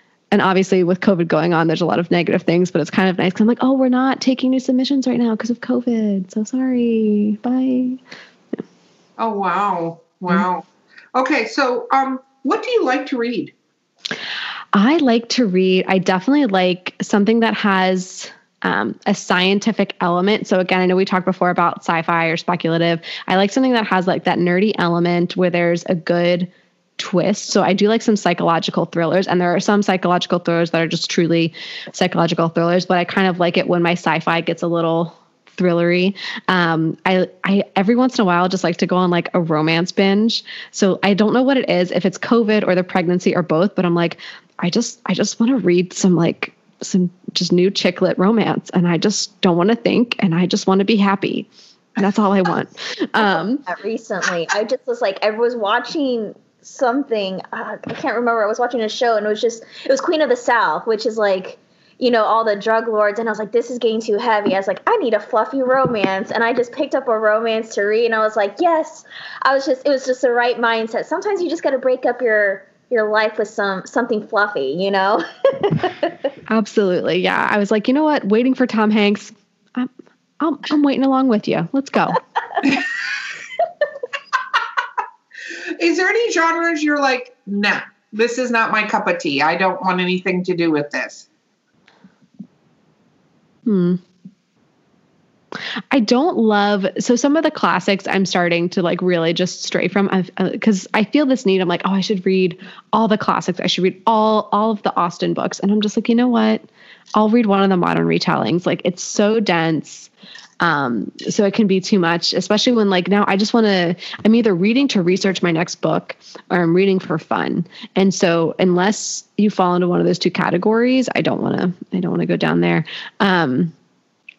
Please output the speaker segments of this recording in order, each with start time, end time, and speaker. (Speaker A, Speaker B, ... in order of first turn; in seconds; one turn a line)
Speaker A: 0.3-8.0
Speaker B: 9.2-13.5
Speaker A: 14.7-53.6
Speaker C: 53.6-76.1
Speaker A: 76.5-82.2
Speaker B: 85.8-91.2
Speaker A: 93.6-94.0
Speaker A: 95.9-123.7